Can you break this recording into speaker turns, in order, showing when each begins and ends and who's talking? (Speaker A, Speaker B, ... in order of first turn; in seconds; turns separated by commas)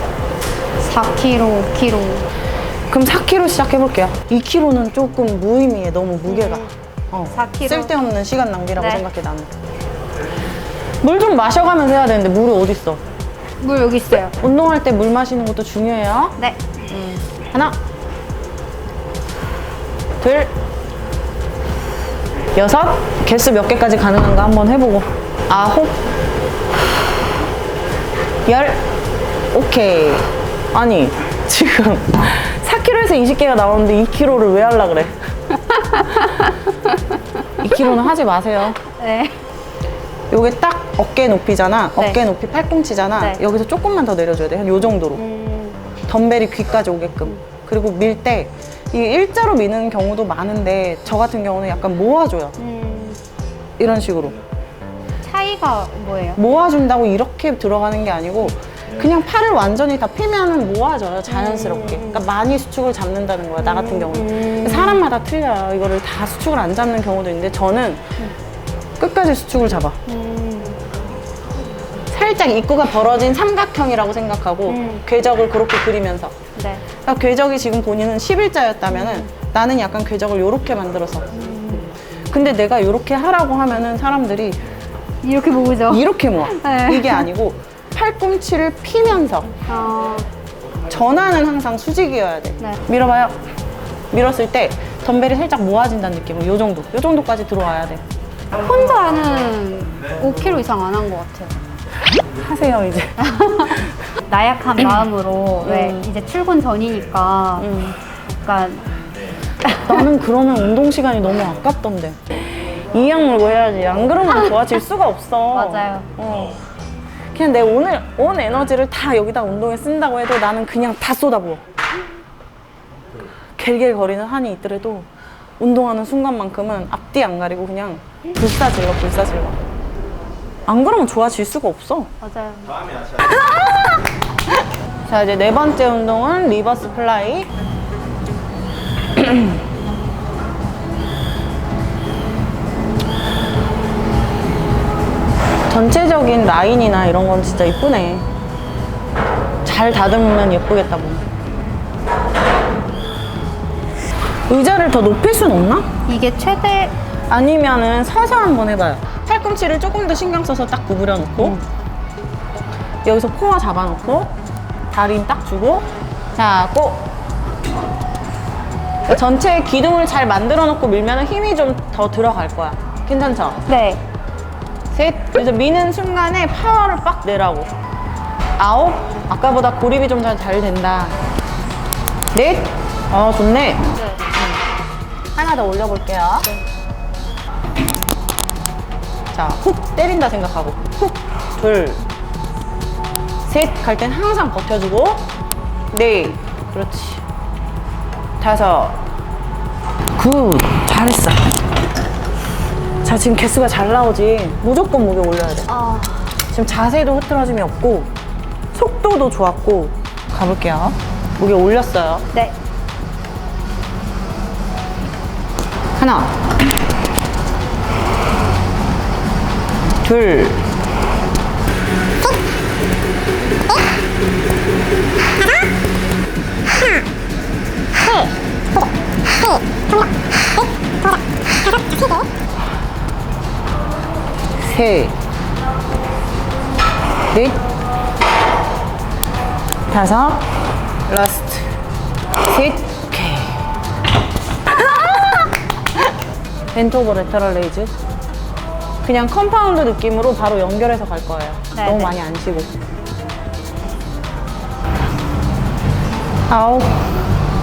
Speaker A: 0.8-2.3, Speaker B: 2.9-9.6, Speaker A: 6.2-6.7, Speaker A: 7.3-7.9, Speaker A: 8.8-9.1, Speaker B: 11.0-13.0, Speaker A: 13.6-14.3, Speaker B: 14.4-16.4, Speaker B: 16.9-17.8, Speaker B: 20.2-20.5, Speaker B: 22.5-26.0, Speaker B: 28.4-28.8, Speaker B: 29.5-35.1, Speaker A: 35.5-37.2, Speaker B: 37.6-38.8, Speaker A: 38.8-39.4, Speaker B: 40.3-45.2, Speaker A: 42.0-42.2, Speaker A: 45.1-45.8, Speaker B: 46.1-52.6, Speaker A: 52.6-53.2, Speaker B: 53.8-54.4, Speaker A: 55.2-56.4, Speaker B: 56.4-68.0, Speaker A: 61.3-62.2, Speaker A: 63.6-65.0, Speaker B: 69.0-70.0, Speaker A: 70.1-70.8, Speaker B: 72.1-76.4, Speaker A: 74.7-75.0, Speaker A: 76.5-76.9, Speaker B: 76.9-81.3, Speaker A: 78.9-79.3, Speaker A: 81.3-81.9, Speaker B: 82.3-84.6, Speaker A: 85.2-87.3, Speaker B: 85.9-89.5, Speaker A: 89.7-90.3, Speaker B: 90.9-93.4, Speaker B: 94.1-98.0, Speaker A: 98.6-101.5, Speaker B: 102.3-103.9, Speaker A: 103.2-107.7, Speaker B: 105.6-106.1, Speaker B: 107.6-108.0, Speaker A: 108.3-108.8, Speaker A: 109.7-110.0, Speaker B: 109.7-116.6, Speaker A: 115.5-116.1, Speaker B: 117.3-121.6, Speaker B: 123.6-125.1, Speaker B: 125.6-129.6, Speaker B: 130.7-132.1, Speaker A: 132.2-132.8, Speaker B: 135.1-137.5, Speaker B: 139.2-139.5, Speaker B: 145.7-148.2, Speaker B: 149.6-151.2, Speaker B: 154.5-155.9, Speaker A: 156.1-156.9, Speaker B: 157.3-161.6, Speaker B: 163.0-164.3, Speaker B: 164.9-167.1, Speaker B: 169.1-173.6, Speaker A: 173.7-174.0, Speaker B: 174.9-177.7, Speaker B: 178.6-181.2, Speaker B: 182.3-184.6, Speaker A: 184.0-184.2, Speaker B: 185.3-186.5, Speaker B: 189.3-192.0, Speaker B: 193.4-195.3, Speaker B: 195.9-197.2, Speaker B: 198.4-199.0, Speaker B: 200.2-201.4, Speaker B: 203.0-205.8, Speaker A: 205.7-206.2, Speaker B: 206.4-208.1, Speaker B: 208.7-212.2, Speaker B: 216.0-216.4, Speaker B: 220.0-220.6, Speaker A: 228.0-228.3, Speaker B: 234.6-235.1, Speaker B: 237.3-237.6, Speaker B: 239.9-240.5, Speaker B: 241.1-241.7, Speaker B: 242.4-243.6, Speaker B: 246.7-247.9, Speaker B: 249.0-252.7, Speaker A: 251.7-252.2, Speaker B: 256.5-257.1